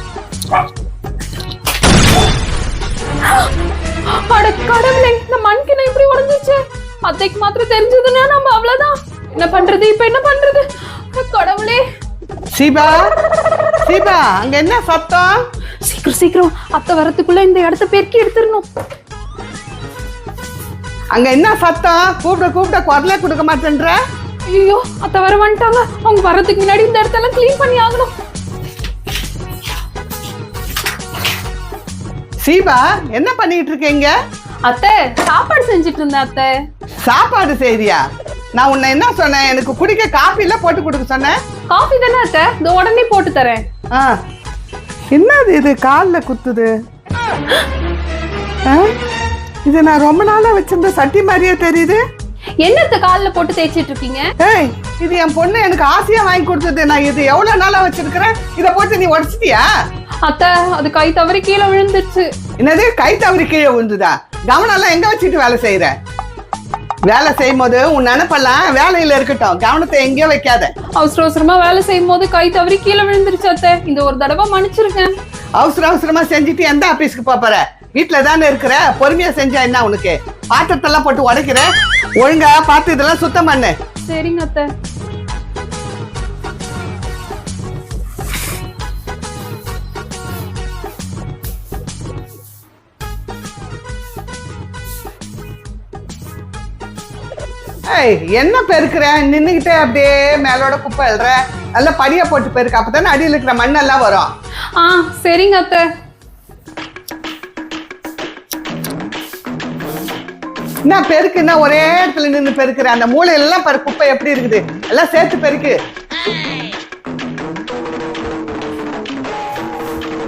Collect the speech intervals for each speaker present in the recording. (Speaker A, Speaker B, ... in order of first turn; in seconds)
Speaker A: 4.1-11.8, 15.8-18.6, 24.5-28.1, 34.6-36.5, 41.7-43.6, 52.6-54.2, 60.2-62.3, 71.0-75.1, 84.0-84.7, 104.8-105.9
Speaker B: 12.5-13.0, 13.8-15.4, 21.1-24.0, 32.4-34.1, 37.0-38.0, 38.5-41.3, 45.1-46.7, 49.6-52.0, 54.4-59.6, 62.6-65.9, 67.1-70.7, 75.6-83.7, 97.9-104.3, 110.9-115.7